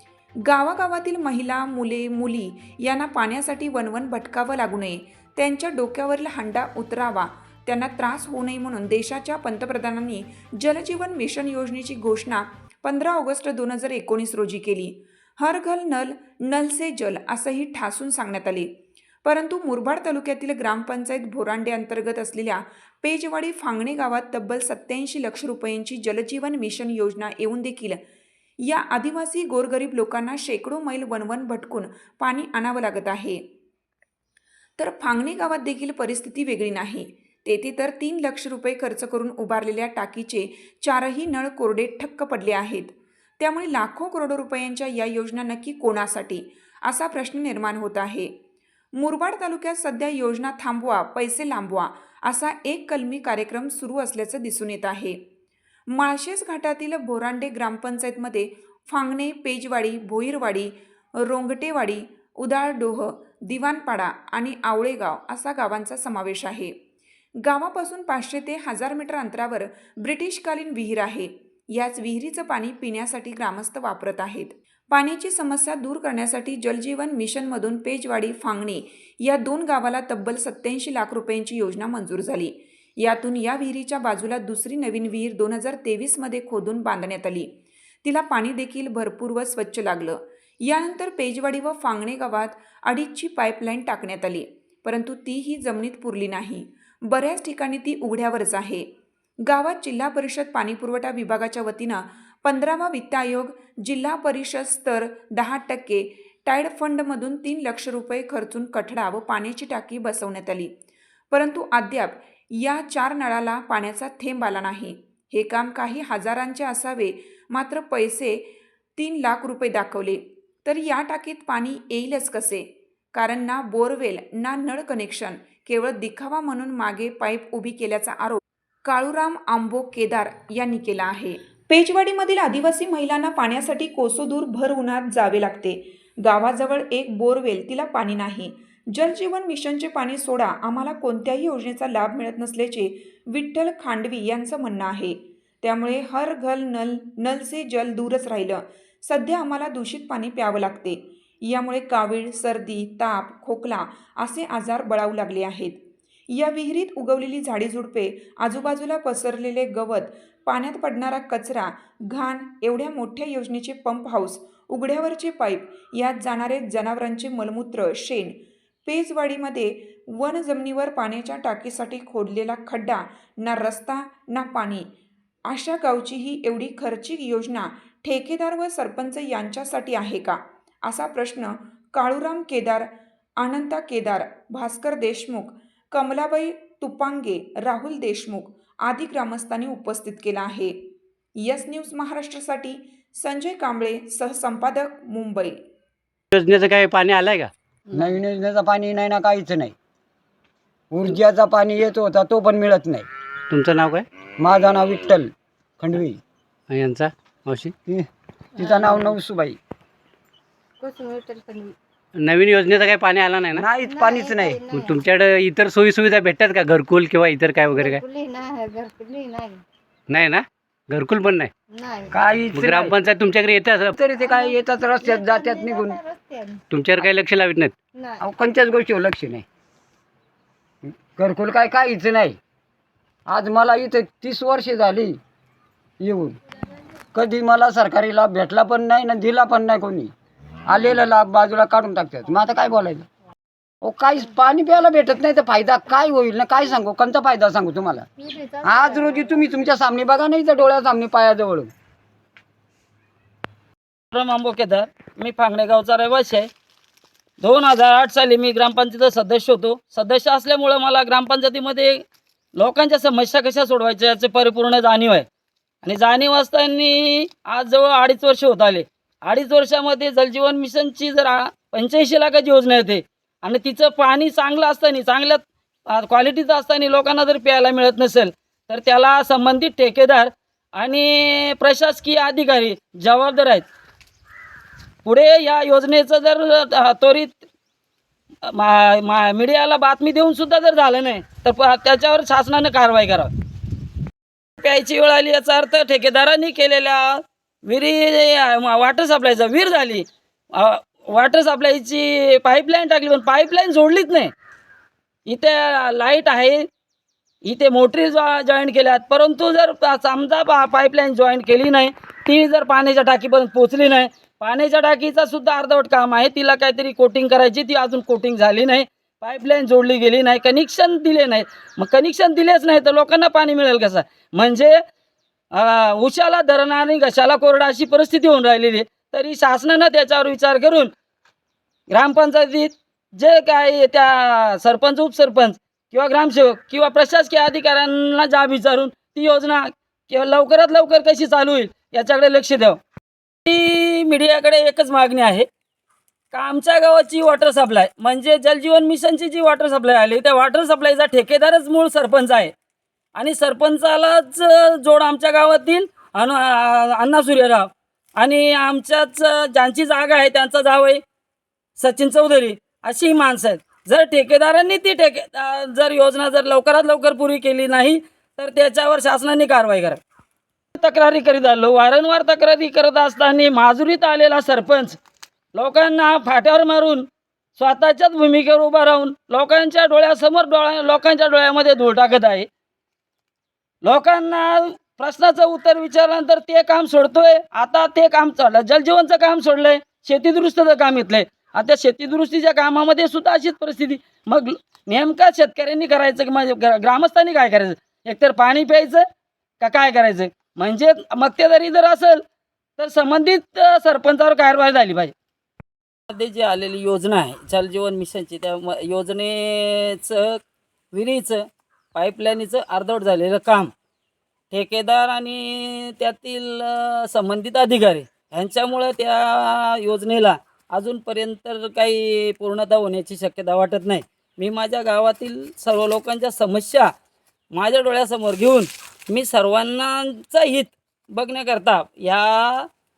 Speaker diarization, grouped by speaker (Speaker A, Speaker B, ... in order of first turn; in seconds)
Speaker A: 0.5-18.7, 19.2-28.0, 28.6-33.4, 34.8-48.3, 49.0-55.2, 55.9-66.7, 67.4-87.5, 88.0-98.9, 99.5-110.7, 111.3-174.9, 175.5-190.8, 191.4-195.6
Speaker B: 196.3-197.5, 203.5-204.1, 206.7-207.7, 212.2-213.7, 214.7-218.0, 220.1-221.5, 222.5-224.0, 226.7-227.8
Speaker C: 197.9-199.8, 200.9-203.1, 204.4-206.2, 208.6-209.6, 213.5-214.6, 222.1-223.0, 223.9-226.0, 228.2-229.4, 230.9-232.4, 233.3-235.2, 236.0-236.4, 237.1-240.1, 240.7-243.1, 243.8-248.1, 248.6-251.7
Speaker D: 208.6-209.2, 210.8-211.8, 213.8-215.0, 217.7-219.6, 221.7-222.4, 224.2-226.6, 227.9-228.2, 248.2-249.4
Speaker E: 254.1-256.5, 257.4-262.0, 262.6-265.3, 265.8-283.7, 285.1-287.4, 288.4-293.3, 294.6-304.3, 305.3-306.7, 307.4-324.8, 325.5-330.9, 331.9-342.8, 343.4-345.5, 346.3-352.5, 353.1-361.0, 361.8-370.0, 370.7-375.0, 375.6-382.5, 383.8-399.1, 399.6-402.2, 402.8-405.1, 406.1-413.7, 414.5-426.9, 427.5-432.7